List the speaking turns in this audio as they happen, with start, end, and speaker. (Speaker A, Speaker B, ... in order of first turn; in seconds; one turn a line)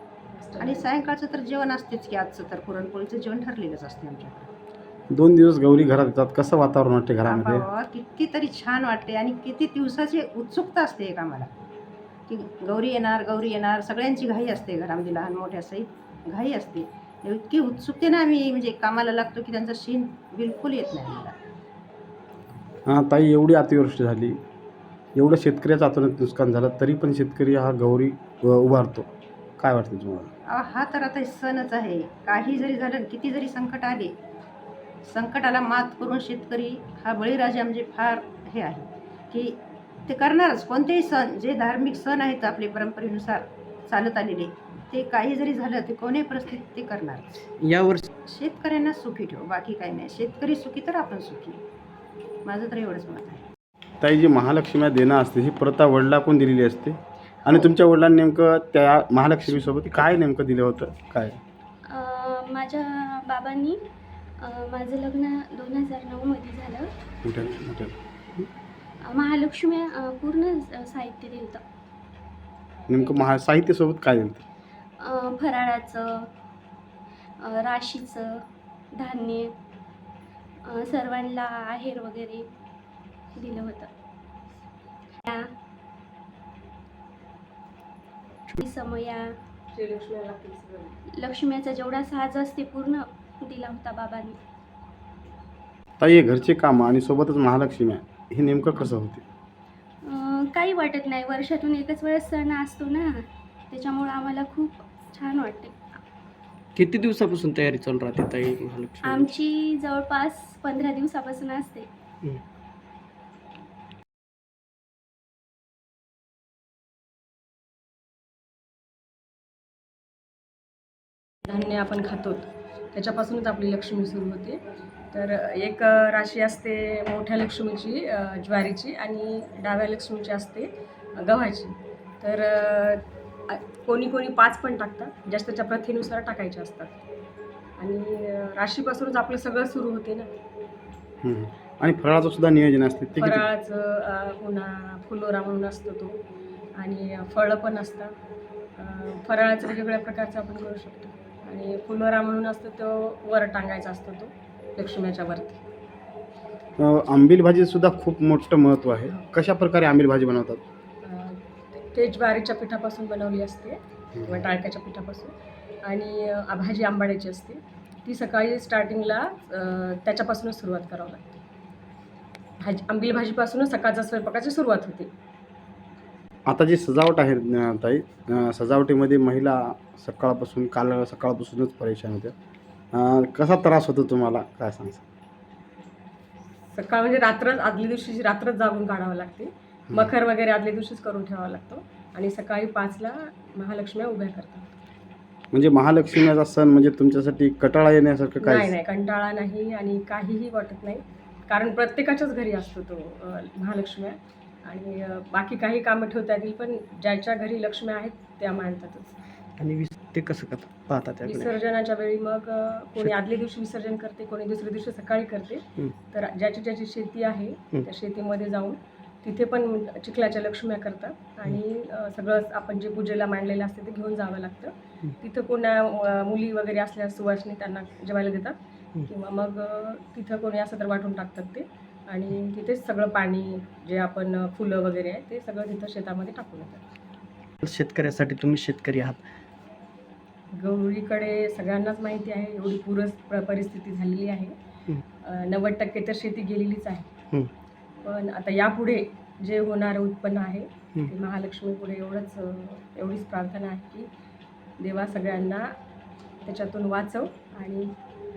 Speaker A: 0.3-0.9
Speaker B: 0.6-4.5
Speaker C: 5.1-7.7
Speaker B: 7.2-11.5
Speaker B: 12.3-21.4
Speaker C: 22.9-24.4
Speaker C: 25.1-30.3
Speaker B: 30.5-34.1
Speaker B: 35.0-47.4
Speaker D: 47.6-48.1
Speaker B: 48.3-51.6
Speaker B: 52.5-53.4
Speaker C: 54.0-61.4
Speaker D: 59.5-59.9
Speaker E: 61.9-63.8
Speaker E: 64.4-66.9
Speaker C: 67.2-68.0
Speaker E: 69.0-71.6
Speaker C: 72.9-74.4
Speaker E: 75.0-76.3
Speaker E: 77.4-78.3
Speaker E: 78.9-79.5
Speaker E: 80.7-82.5
Speaker E: 83.4-83.9
Speaker E: 88.6-89.3
Speaker A: 89.7-91.0
Speaker E: 91.2-94.4
Speaker C: 96.0-99.2
Speaker E: 100.0-103.1
Speaker E: 103.7-106.0
Speaker D: 106.8-109.3
Speaker E: 109.0-111.9
Speaker A: 121.5-124.6
Speaker A: 125.1-136.9
Speaker A: 137.8-140.3
Speaker C: 141.2-143.5
Speaker A: 143.2-146.2
Speaker A: 146.8-148.1
Speaker A: 148.8-155.6
Speaker C: 156.8-160.6
Speaker A: 161.0-161.4
Speaker A: 161.9-165.3
Speaker A: 165.8-171.3
Speaker A: 172.6-175.1
Speaker C: 176.5-182.3
Speaker C: 182.9-185.0
Speaker A: 186.7-194.7
Speaker C: 195.5-198.7
Speaker A: 198.4-209.2
Speaker D: 209.6-211.5
Speaker A: 211.2-236.8
Speaker D: 237.6-239.2
Speaker A: 240.5-244.6
Speaker A: 245.2-247.1
Speaker A: 248.0-254.1
Speaker A: 254.8-255.7
Speaker A: 256.4-257.9